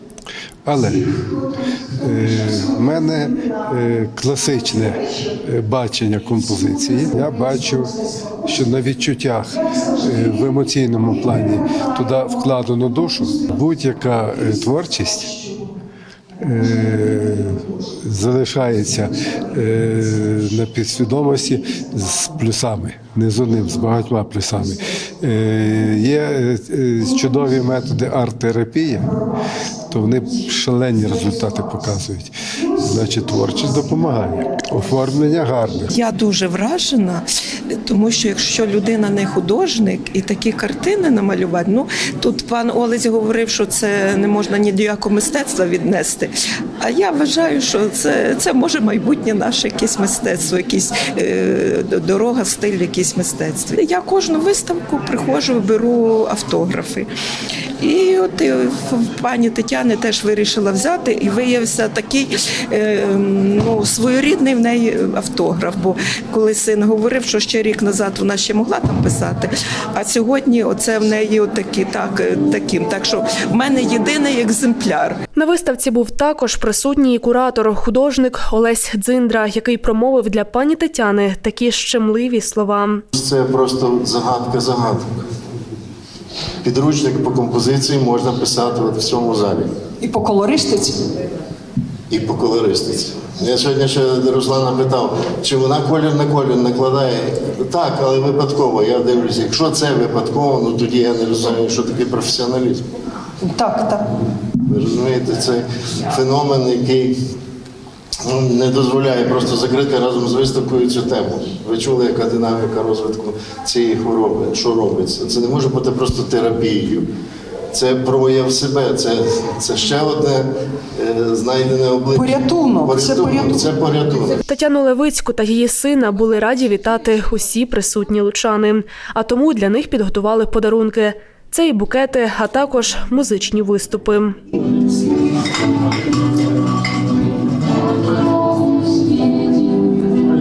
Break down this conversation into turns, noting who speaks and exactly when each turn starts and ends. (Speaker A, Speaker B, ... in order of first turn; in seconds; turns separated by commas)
Speaker A: 0.6-1.2, Speaker A: 2.0-15.3, Speaker A: 16.4-29.1, Speaker A: 29.9-35.9, Speaker B: 35.9-37.3, Speaker B: 37.9-57.1, Speaker B: 57.8-75.2, Speaker C: 75.3-83.0, Speaker D: 83.1-85.1, Speaker D: 86.6-89.7, Speaker E: 90.0-91.0, Speaker D: 92.1-102.8, Speaker E: 103.4-104.1, Speaker D: 104.6-107.2, Speaker D: 108.2-117.1, Speaker D: 117.7-124.4, Speaker E: 122.1-123.7, Speaker C: 124.4-134.4